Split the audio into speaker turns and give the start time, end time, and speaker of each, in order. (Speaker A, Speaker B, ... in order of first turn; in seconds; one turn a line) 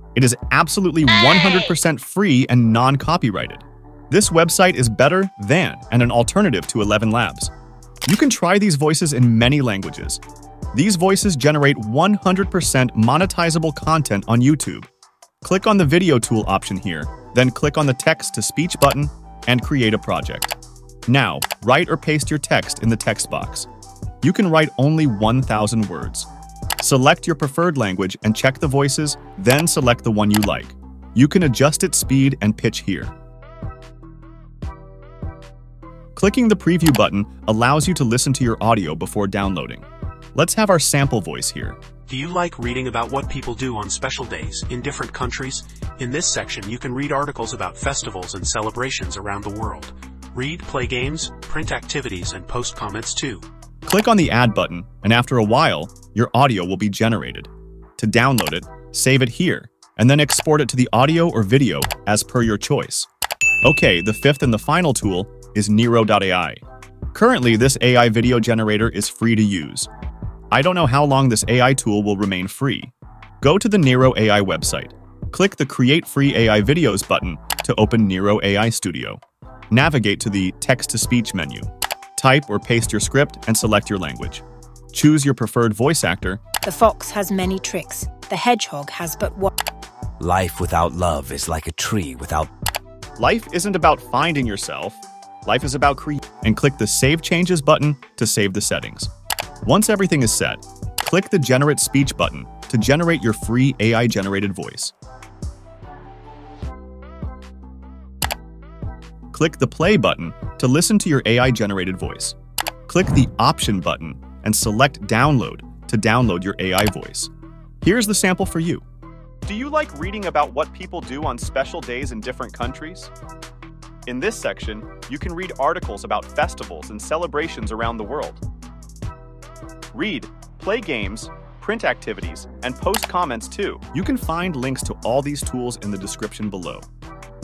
Speaker A: 0.1-7.5
Speaker A: 8.1-10.2
Speaker A: 10.7-14.9
Speaker A: 15.4-20.6
Speaker A: 21.1-23.7
Speaker A: 24.2-26.3
Speaker A: 26.8-33.1
Speaker A: 36.2-41.8
Speaker B: 42.1-53.4
Speaker A: 53.9-63.1
Speaker A: 63.6-66.6
Speaker A: 67.1-69.9
Speaker A: 70.5-86.4
Speaker C: 86.6-89.5
Speaker D: 90.2-92.5
Speaker A: 93.2-99.1
Speaker A: 99.7-104.9
Speaker A: 109.3-112.4
Speaker A: 112.9-118.8
Speaker A: 119.5-123.1
Speaker A: 124.1-128.4
Speaker A: 129.9-136.9